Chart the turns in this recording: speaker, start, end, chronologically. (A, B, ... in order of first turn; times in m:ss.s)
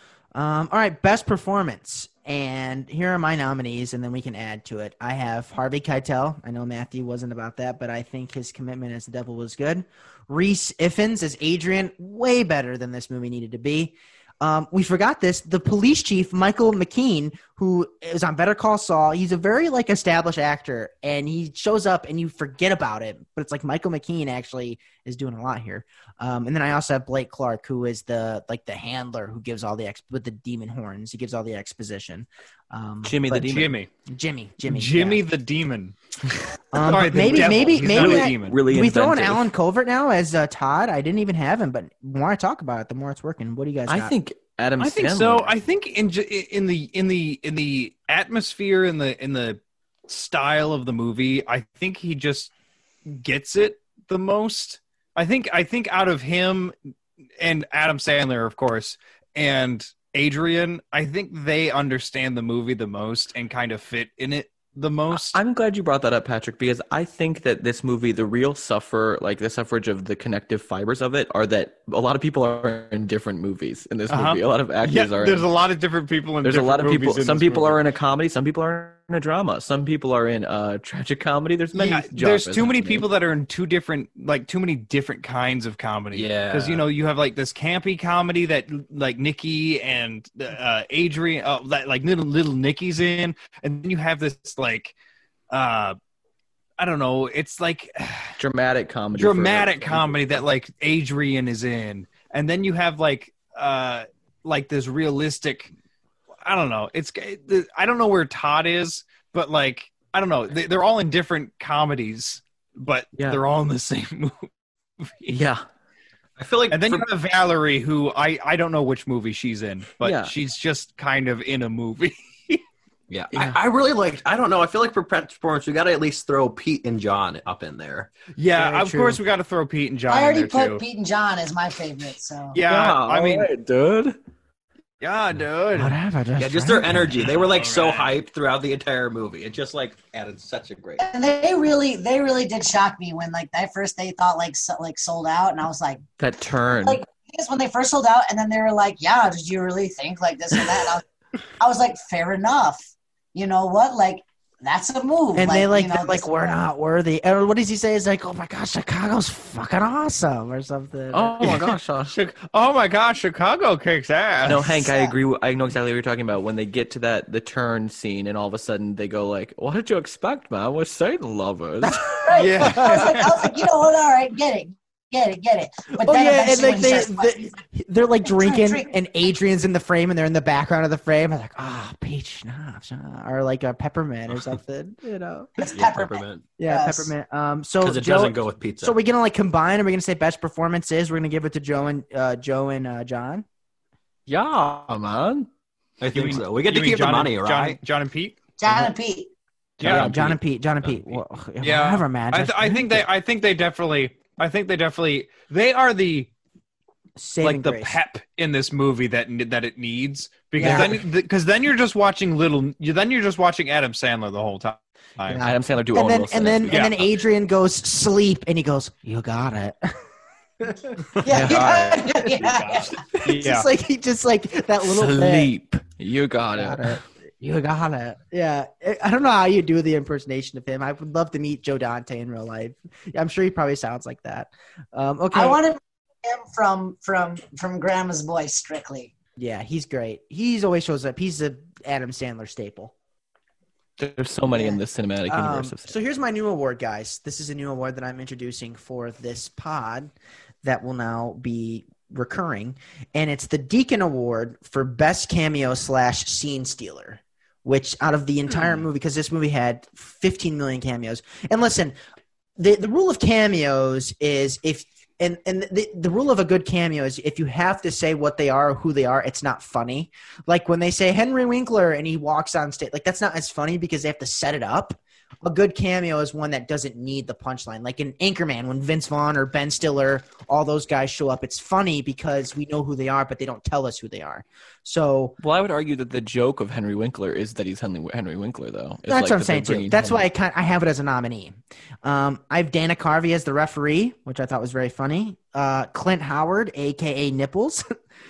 0:00.4-0:33.5 A
0:33.0-0:33.8 B
0:33.4-0:33.9 C
0:34.1-0:35.2 A
0:34.6-0:36.0 C
0:36.7-0:44.1 A
0:36.8-0:38.6 C
0:37.0-0:39.5 B
0:43.9-0:45.5 B
0:44.8-0:52.5 C
0:53.1-0:56.8 C
0:57.4-1:05.4 C
1:05.1-1:15.5 B
1:14.1-1:17.8 C
1:16.4-1:23.1 B
1:21.7-1:35.0 C
1:26.1-1:26.8 D
1:35.5-1:36.0 C
1:36.8-1:38.3 C
1:38.4-1:40.4 B
1:39.2-1:45.7 C
1:46.4-1:54.5 C
1:53.2-1:53.4 B
1:55.0-1:55.4 C
1:55.3-1:55.6 B
1:56.4-1:57.1 D
1:56.7-2:02.6 C
2:00.0-2:00.3 B
2:03.1-2:08.1 D
2:08.3-2:10.8 C
2:08.6-2:09.2 A
2:10.1-2:12.6 E
2:12.5-2:13.5 C
2:12.6-2:14.2 B
2:15.0-2:16.0 C
2:15.8-2:17.3 A
2:16.4-2:21.1 D
2:17.3-2:18.1 C
2:21.0-2:26.0 E
2:26.2-2:27.0 B
2:26.8-2:31.0 E
2:31.6-2:36.3 E
2:35.4-2:41.5 A
2:41.1-2:42.2 B
2:41.4-2:44.8 C
2:44.4-2:52.2 B
2:52.2-2:57.6 E
2:52.3-2:53.4 C
2:56.0-3:05.5 A
2:58.2-2:58.9 E
3:05.6-3:07.1 E
3:05.7-3:06.5 D
3:06.6-3:13.4 A
3:07.8-3:09.0 D
3:14.3-3:15.5 B
3:16.0-3:17.8 D
3:16.1-3:18.4 C
3:18.6-3:19.3 E
3:19.8-3:20.4 B
3:19.8-3:20.1 C
3:19.8-3:23.0 A
3:21.6-3:26.3 C
3:27.2-3:28.0 A
3:27.4-3:35.4 C
3:30.6-3:31.0 A
3:35.3-3:40.0 A
3:35.4-3:36.9 B
3:36.7-3:37.0 C
3:40.6-3:41.0 A
3:41.2-3:43.0 E
3:41.3-3:41.8 B
3:41.4-3:43.7 C
3:43.1-3:45.5 A
3:44.8-3:47.0 B
3:46.6-3:55.6 A
3:55.3-3:59.1 E
3:59.4-4:02.9 A
4:04.0-4:06.0 B
4:04.5-4:10.1 A
4:10.6-4:22.0 A
4:22.6-4:45.4 A
4:45.4-4:50.3 B
4:49.1-4:57.9 A